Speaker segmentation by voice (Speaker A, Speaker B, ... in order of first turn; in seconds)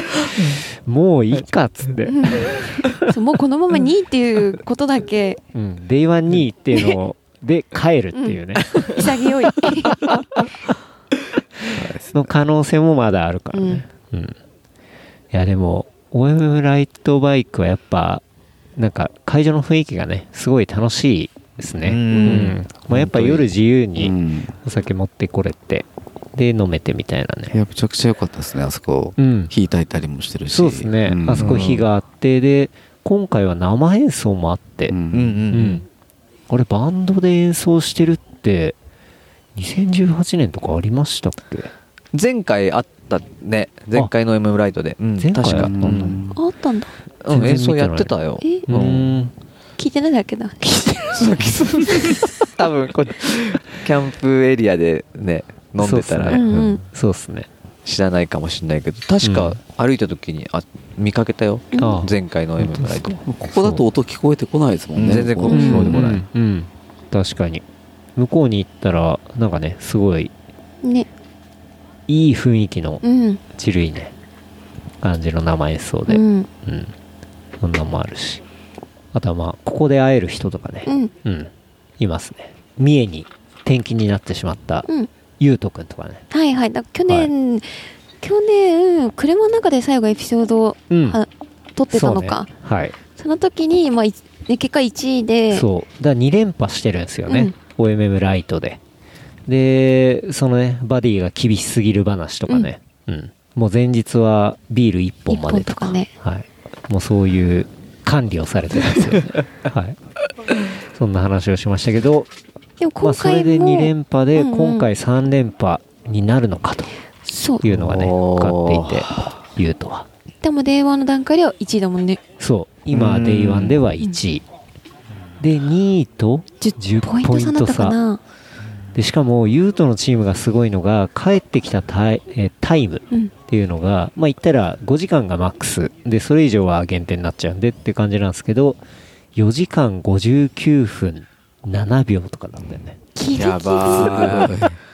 Speaker A: 0.4-2.4, 5.5-9.1, 12.1-14.4, 15.3-18.2, 18.8-27.5, 29.2-29.5, 30.5-35.0, 35.5-35.8, 36.5-38.8, 39.5-41.7, 45.2-46.2, 47.3-48.1, 48.7-49.3, 50.9-51.5, 55.8-57.5, 59.2-59.6, 61.8-63.8, 65.5-67.6, 68.2-70.3, 72.1-74.1, 75.0-76.9, 77.6-78.4, 79.1-84.9, 85.4-86.2, 90.9-91.2, 91.9-93.0, 95.5-98.8, 99.5-110.0, 110.9-112.3, 113.0-116.9, 117.6-120.1, 122.4-124.5, 125.4-128.0, 128.9-138.8, 139.3-143.0
Speaker B: 2.1-5.4, 8.1-10.2, 13.5-13.8, 22.1-22.5, 46.4-46.9, 48.4-48.7, 49.8-50.8, 56.3-56.8, 61.7-62.1, 65.5-66.0, 70.8-71.1, 73.0-73.4, 76.1-76.5, 80.9-81.1, 86.3-92.5, 93.1-95.7, 97.3-97.5, 105.3-106.1, 112.8-114.9, 117.2-117.7, 120.4-122.2, 126.6-128.2, 143.2-144.5
Speaker C: 21.8-22.6, 31.4-31.8, 35.1-35.8, 42.1-46.2, 47.2-49.1, 51.1-56.6, 57.9-63.2, 65.0-66.2, 117.7-119.3, 122.9-123.8, 143.4-144.6
Speaker D: 22.9-24.5, 27.5-31.8, 34.9-35.4, 45.5-46.4, 63.2-66.1, 143.8-144.8